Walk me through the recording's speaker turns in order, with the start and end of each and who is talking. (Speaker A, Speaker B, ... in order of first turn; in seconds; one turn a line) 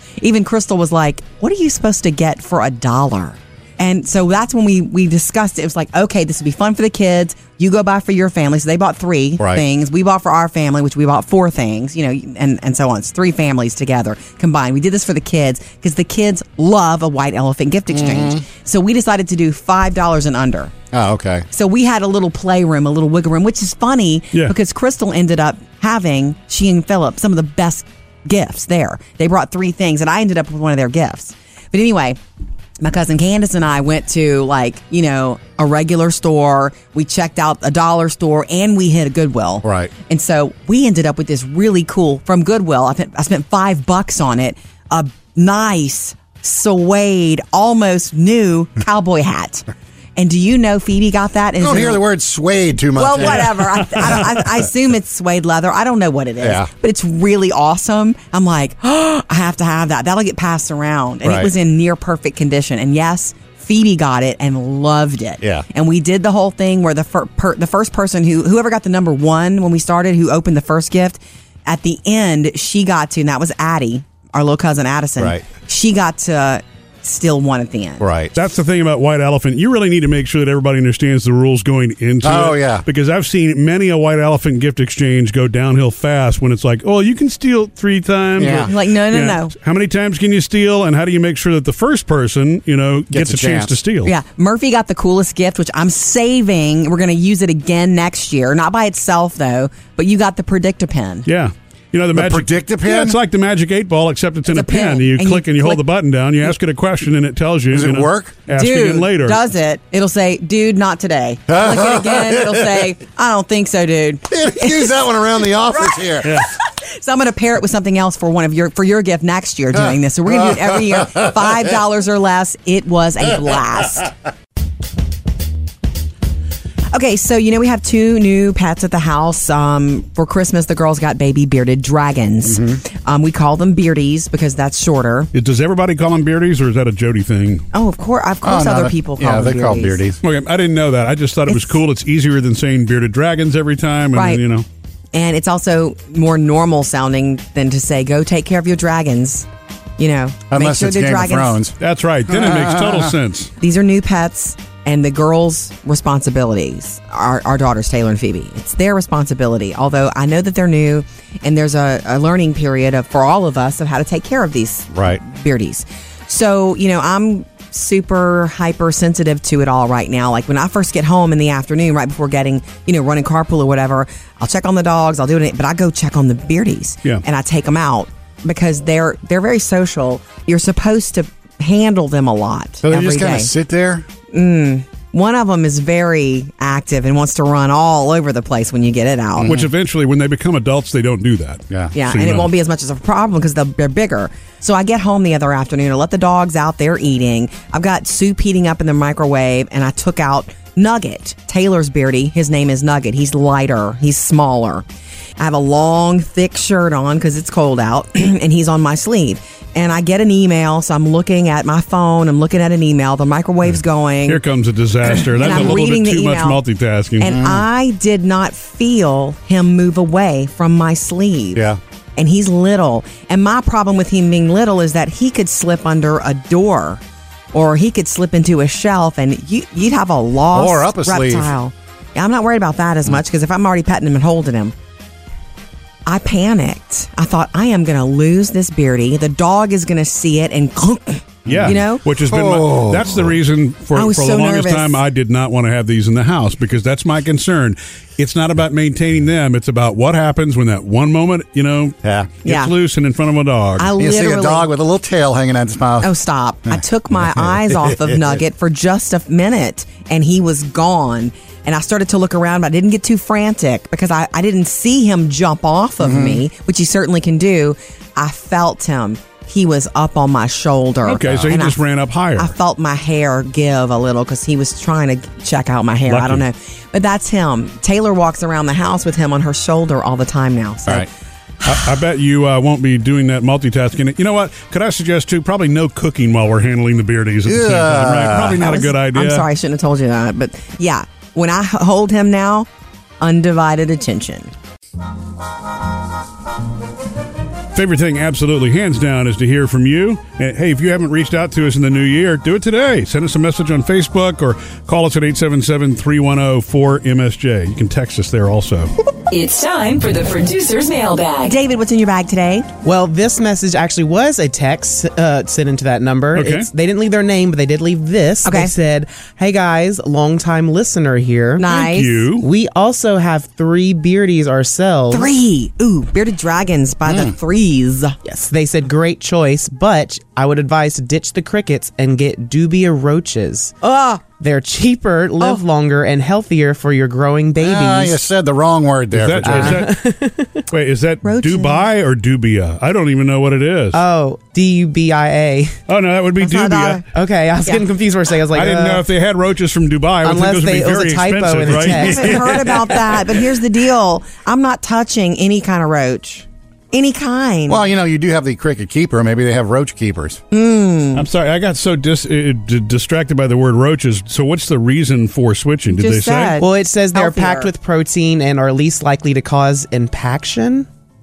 Speaker A: 0.2-20.7
Speaker B: 17.9-18.4
Speaker B: 20.9-21.4
Speaker A: 21.5-32.2
Speaker A: 32.8-49.6
Speaker B: 39.6-39.9
Speaker A: 50.2-52.0
Speaker B: 51.6-54.4
Speaker A: 53.0-78.0
Speaker B: 56.4-56.7
Speaker B: 61.2-61.5
Speaker B: 75.2-75.4
Speaker B: 78.0-78.3
Speaker C: 78.4-94.1
Speaker B: 82.2-82.8
Speaker B: 88.4-88.7
Speaker A: 88.7-89.5
Speaker B: 93.1-93.7
Speaker A: 94.0-101.2
Speaker C: 101.2-109.4
Speaker B: 102.1-103.2
Speaker A: 104.5-105.8
Speaker B: 107.7-108.3
Speaker A: 108.5-115.0
Speaker B: 111.5-112.9
Speaker B: 114.3-116.4
Speaker A: 115.7-116.1
Speaker A: 116.9-124.1
Speaker B: 120.3-121.3
Speaker A: 126.9-135.3
Speaker B: 132.5-132.8
Speaker C: 135.3-137.6
Speaker A: 137.7-140.0
Speaker B: 138.4-140.2
Speaker C: 140.2-144.7
Speaker A: 144.1-144.4
Speaker A: 145.1-149.4
Speaker A: 150.0-151.6
Speaker B: 150.5-151.8
Speaker C: 151.8-153.5
Speaker B: 152.3-153.1
Speaker A: 153.6-183.5
Speaker B: 164.9-165.2
Speaker B: 182.8-184.0
Speaker A: 184.3-189.5
Speaker B: 189.4-189.7
Speaker C: 189.4-192.5
Speaker A: 191.9-204.8
Speaker A: 205.4-214.4
Speaker C: 214.3-217.4
Speaker A: 215.3-216.6
Speaker A: 217.2-221.6
Speaker B: 217.2-217.6
Speaker B: 221.5-221.8
Speaker A: 222.2-227.0
Speaker A: 227.5-234.7
Speaker B: 230.5-231.5
Speaker A: 236.1-242.0
Speaker B: 241.4-243.4
Speaker C: 241.4-253.9
Speaker A: 243.9-245.0
Speaker B: 252.0-252.3
Speaker A: 252.4-252.7
Speaker A: 253.8-254.7
Speaker B: 254.0-256.1
Speaker A: 256.0-271.8
Speaker B: 256.7-258.4
Speaker B: 266.0-266.4
Speaker C: 271.1-272.5
Speaker A: 272.4-281.1
Speaker C: 276.1-276.4
Speaker C: 281.6-289.4
Speaker B: 287.4-288.6
Speaker A: 288.6-292.7
Speaker A: 293.2-294.5
Speaker C: 297.7-308.9
Speaker D: 309.3-311.6
Speaker A: 311.4-312.7
Speaker E: 312.8-321.7
Speaker C: 316.3-316.7
Speaker A: 318.4-318.7
Speaker A: 321.6-322.2
Speaker C: 321.7-322.4
Speaker E: 322.4-325.3
Speaker A: 325.1-328.2
Speaker B: 327.1-327.3
Speaker E: 328.2-333.8
Speaker A: 333.8-334.2
Speaker E: 334.4-338.2
Speaker B: 337.6-339.9
Speaker C: 339.1-340.0
Speaker E: 339.4-340.6
Speaker C: 340.7-344.0
Speaker A: 341.2-341.8
Speaker E: 343.9-345.8
Speaker C: 345.9-347.0
Speaker A: 346.4-347.0
Speaker E: 347.1-349.0
Speaker C: 348.5-352.8
Speaker E: 350.2-352.6
Speaker A: 352.0-357.8
Speaker B: 357.7-360.4
Speaker A: 360.5-361.2
Speaker C: 361.1-366.6
Speaker A: 365.9-367.7
Speaker E: 366.6-370.9